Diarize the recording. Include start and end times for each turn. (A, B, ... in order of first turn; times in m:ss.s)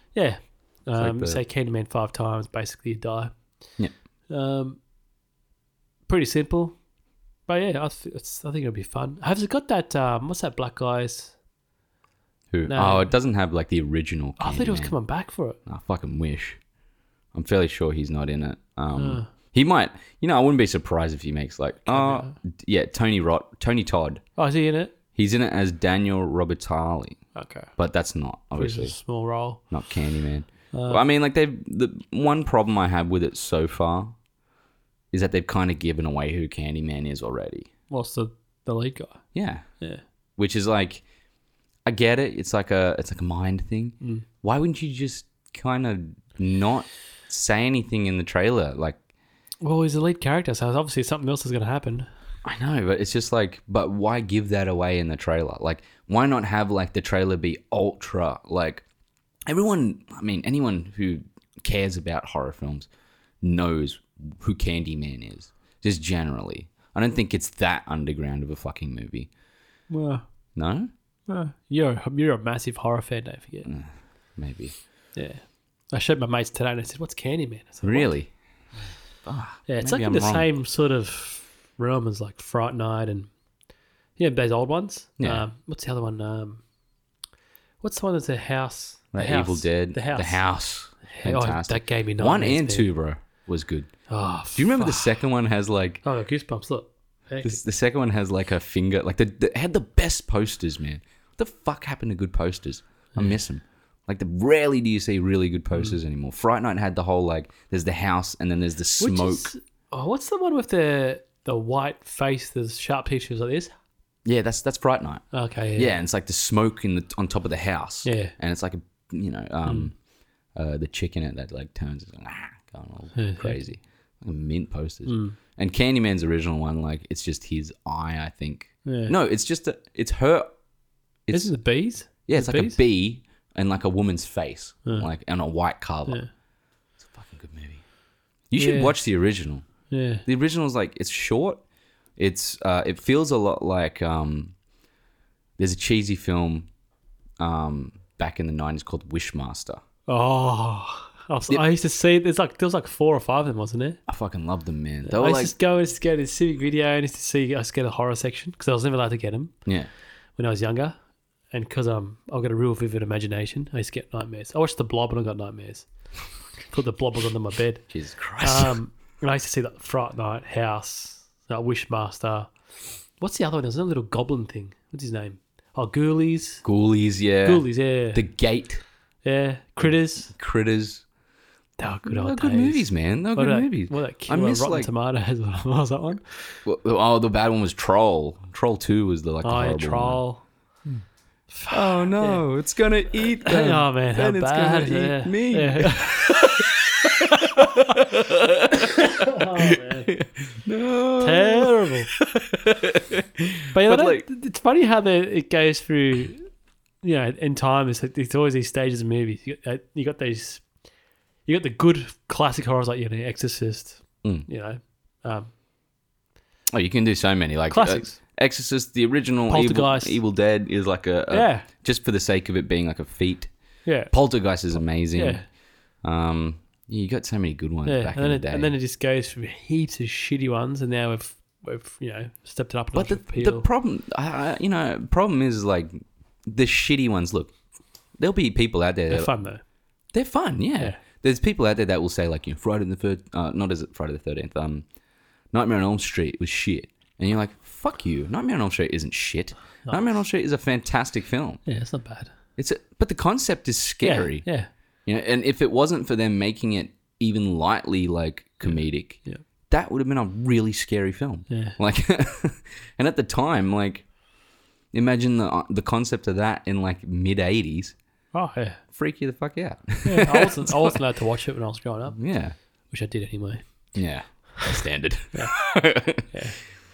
0:00.2-0:03.3 A
0:01.0-0:01.4 B
0:04.3-0:04.8 A
0:06.1-0:06.8 A
0:07.5-0:11.4 A
0:12.5-0:15.0 B
0:12.7-0:13.1 A
0:14.4-0:15.6 A
0:15.7-0:16.6 B
0:17.3-0:24.2 B
0:19.0-0:19.3 A
0:21.9-0:22.3 A
0:24.4-0:24.9 A
0:25.2-0:27.2 B
0:27.4-0:27.7 A
0:27.8-0:29.0 B
0:28.5-0:29.6 A
0:29.7-0:34.2 B
0:30.7-0:31.0 A
0:35.1-0:37.7 B
0:37.9-0:39.2 A
0:39.3-0:39.6 B
0:40.4-0:41.0 B
0:41.9-0:49.0 B
0:49.6-0:52.1 A
0:52.4-0:58.8 B
0:59.5-1:02.9 B
1:03.4-1:09.3 B
1:09.9-1:10.2 A
1:10.6-1:10.9 B
1:11.3-1:13.7 A
1:13.6-1:14.8 B
1:15.2-1:18.1 A
1:17.8-1:18.3 B
1:19.2-1:20.5 B
1:19.7-1:23.3 A
1:24.2-1:26.6 A
1:25.2-1:25.5 B
1:27.8-1:30.4 A
1:29.1-1:33.9 B
1:31.1-1:32.9 A
1:34.1-1:35.1 A
1:34.6-1:36.0 B
1:36.0-1:37.6 A
1:37.4-1:49.5 B
1:49.0-1:53.7 A
1:54.2-1:55.2 B
1:55.3-1:56.0 A
1:55.8-1:59.9 B
1:58.0-1:58.3 A
2:00.6-2:10.5 B
2:03.2-2:03.6 A
2:05.1-2:05.4 A
2:08.8-2:09.1 A
2:11.3-2:11.5 B
2:11.3-2:12.8 A
2:12.3-2:16.2 B
2:17.0-2:17.8 B
2:18.5-2:19.6 B
2:18.6-2:19.0 A
2:19.9-2:20.2 A
2:20.3-2:21.6 B
2:22.2-2:24.5 B
2:25.6-2:26.7 B
2:27.4-2:29.8 B
2:30.1-2:34.0 A
2:34.1-2:35.5 B
2:35.0-2:39.5 A
2:40.4-2:41.0 A
2:41.5-2:45.9 A
2:46.7-2:47.8 A
2:47.9-2:48.8 B
2:48.4-2:52.5 A
2:53.2-2:56.6 A
2:56.6-2:58.8 B
2:57.4-2:58.2 A
2:59.2-3:00.3 A
3:00.3-3:01.0 B
3:01.8-3:06.6 A
3:02.1-3:04.9 B
3:06.6-3:10.2 B
3:09.4-3:10.4 A
3:11.5-3:12.4 A
3:11.7-3:24.3 B
3:13.4-3:16.4 A
3:17.3-3:17.6 A
3:18.9-3:20.1 A
3:21.2-3:22.1 A
3:23.7-3:26.5 A
3:27.0-3:30.6 A
3:31.5-3:35.5 A
3:36.7-3:43.5 B
3:37.7-3:38.2 A
3:39.5-3:40.2 A
3:41.3-3:41.7 A
3:43.8-3:44.1 A
3:44.1-3:45.4 B
3:45.1-3:45.5 A
3:46.0-3:48.7 B
3:47.8-3:53.7 A
3:53.0-3:55.9 B
3:56.5-3:57.5 B
3:58.2-3:59.3 B
3:59.1-3:59.6 A
4:00.1-4:04.8 B
4:05.5-4:11.6 B
4:09.9-4:10.2 A
4:11.7-4:12.3 A
4:12.6-4:14.4 B
4:14.0-4:14.7 A
4:15.1-4:24.1 B
4:21.5-4:21.8 A
4:24.9-4:28.0 B
4:28.3-4:28.8 A
4:28.9-4:31.0 B
4:30.0-4:32.2 A
4:32.1-4:32.6 B
4:32.9-4:33.6 A
4:34.0-4:36.4 B
4:36.3-4:36.6 A